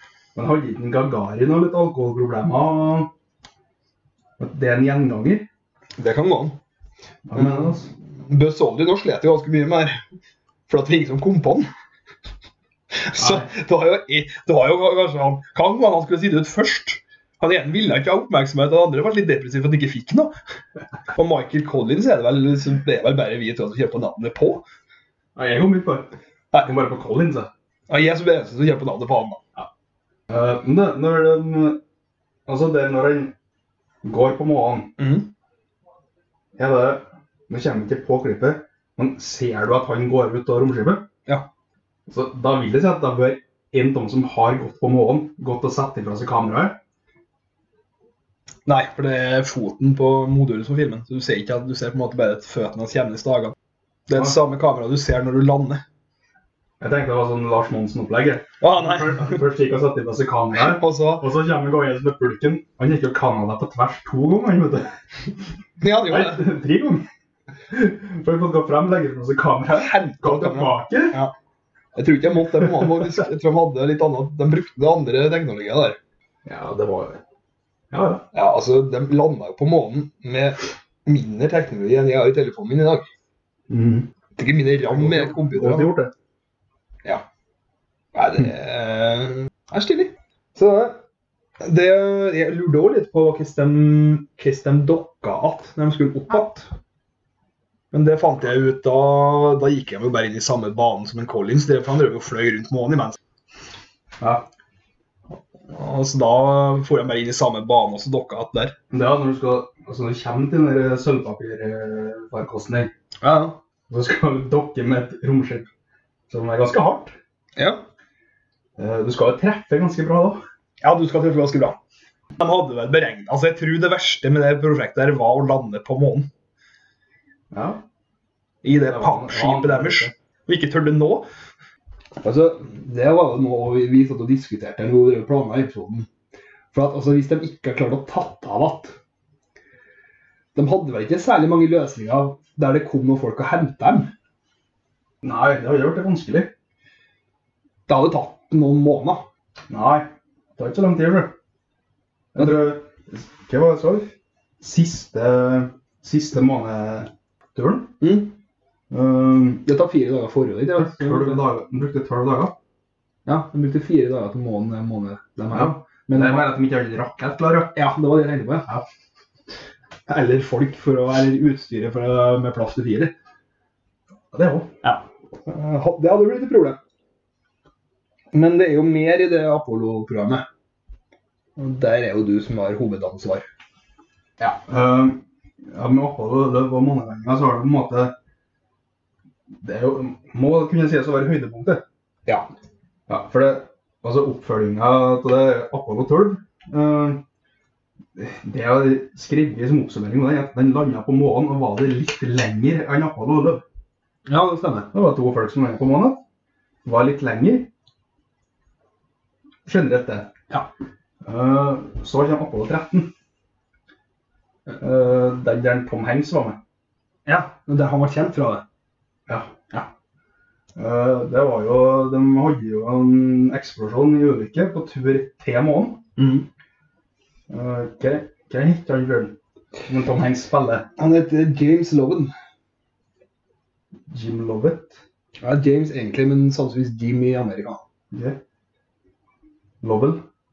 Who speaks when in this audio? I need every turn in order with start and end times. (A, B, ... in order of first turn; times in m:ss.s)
0:00.3-0:03.1 A
0:04.4-0:05.5 A
0:06.0-0:06.6 B
0:07.2-0:07.9 A
0:07.4-0:07.7 B
0:08.2-0:10.0 B
0:10.7-0:11.7 B
0:12.9-0:20.3 B
0:13.2-0:13.5 A
0:21.1-0:24.6 B
0:25.4-0:26.1 A
0:26.6-0:27.5 A
0:27.9-0:29.4 B
0:30.3-0:31.8 A
0:32.5-0:33.3 A
0:34.0-0:34.9 A
0:35.0-0:35.3 B
0:36.6-0:41.0 A
0:42.1-0:46.8 A
0:48.6-0:53.5 B
0:54.1-0:55.8 B
0:56.8-1:05.0 A
0:58.6-0:59.4 B
1:00.6-1:01.3 B
1:05.8-1:06.4 B
1:06.1-1:07.1 A
1:07.7-1:11.2 A
1:09.7-1:11.3 B
1:11.9-1:16.0 B
1:16.4-1:17.2 A
1:17.9-1:18.3 A
1:18.3-1:23.1 B
1:23.7-1:24.1 A
1:24.4-1:25.9 B
1:24.9-1:26.1 A
1:28.1-1:31.0 B
1:31.6-1:36.7 B
1:37.9-1:43.2 B
1:44.2-1:44.4 A
1:45.7-1:48.8 B
1:48.9-1:52.9 A
1:53.2-1:53.6 B
1:53.9-1:55.7 A
1:56.3-1:57.2 A
1:57.6-1:57.8 B
1:58.8-2:00.4 A
2:00.8-2:01.8 B
2:02.4-2:06.3 B
2:07.5-2:07.8 A
2:08.6-2:11.3 B
2:08.8-2:10.1 A
2:12.2-2:16.1 B
2:16.7-2:18.9 B
2:20.5-2:24.1 B
2:25.2-2:26.5 A
2:27.9-2:29.2 B
2:29.7-2:31.3 A
2:32.3-2:34.1 A
2:34.6-2:38.0 A
2:38.0-2:38.3 B
2:38.9-2:39.6 A
2:39.6-2:41.4 B
2:40.7-2:42.6 A
2:43.2-2:46.5 B
2:45.5-2:47.7 A
2:47.7-2:48.8 B
2:50.1-2:53.1 B
2:54.3-2:54.7 A
2:54.8-2:56.8 B
2:58.3-3:00.4 B
3:01.6-3:03.4 B
3:04.4-3:08.1 A
3:09.6-3:11.8 A
3:13.1-3:17.2 A
3:18.2-3:23.6 A
3:24.2-3:24.9 B
3:24.9-3:26.2 A
3:26.8-3:27.7 A
3:29.6-3:30.3 A
3:31.2-3:33.1 A
3:34.8-3:36.6 A
3:37.2-3:38.6 B
3:39.3-3:39.9 A
3:40.8-3:46.0 A
3:46.2-3:46.4 B
3:47.5-3:49.4 A
3:49.9-3:50.9 A
3:51.0-3:52.3 B
3:54.1-3:55.0 A
3:55.4-3:57.8 B
3:58.1-3:58.4 A
3:59.8-4:00.2 A